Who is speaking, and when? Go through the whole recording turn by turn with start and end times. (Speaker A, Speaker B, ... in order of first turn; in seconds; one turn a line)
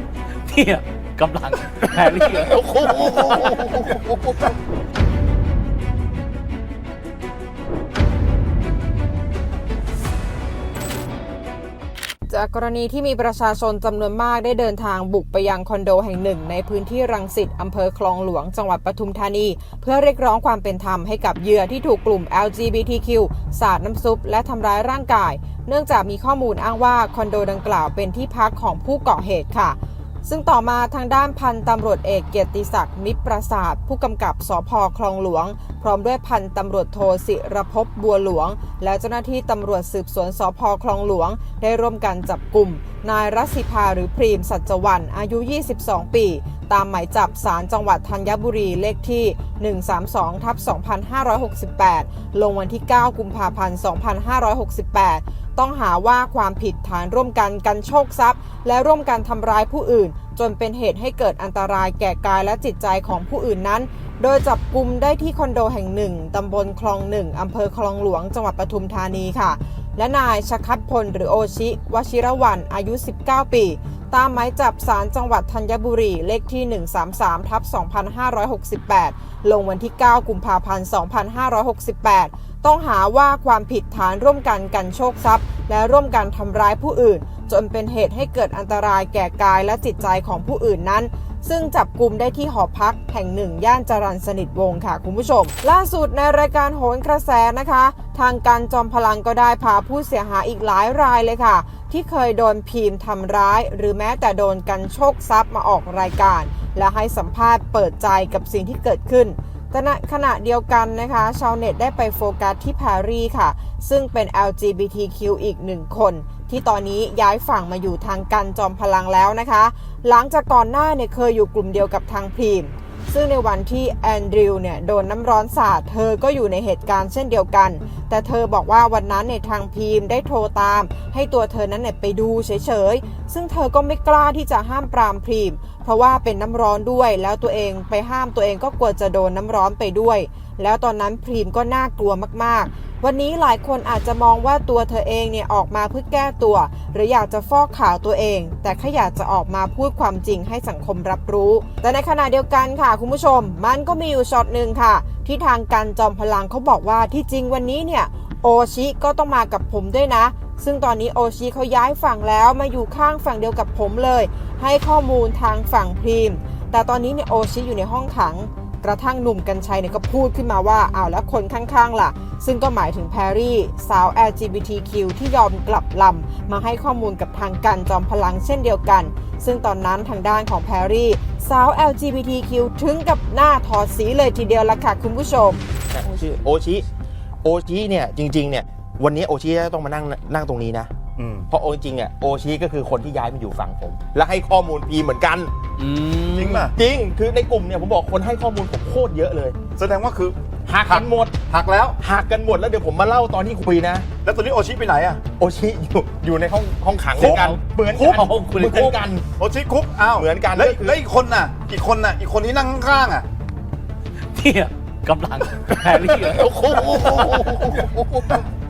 Speaker A: 0.4-3.7
Speaker B: 2.2-4.5
Speaker C: 12.3-185.6
Speaker B: 185.9-186.8
Speaker B: 187.4-190.9
Speaker D: 191.2-191.5
Speaker B: 191.5-195.5
Speaker A: 195.8-196.7
Speaker D: 196.3-196.7
Speaker B: 196.7-199.5
Speaker D: 199.8-200.3
Speaker B: 200.7-201.3
Speaker D: 200.9-202.0
Speaker B: 202.0-204.0
Speaker D: 204.2-205.2
Speaker B: 205.4-209.2
Speaker A: 207.2-209.0
Speaker D: 209.4-213.2
Speaker B: 210.1-211.0
Speaker A: 214.3-217.5
Speaker B: 216.2-218.4
Speaker D: 217.0-218.3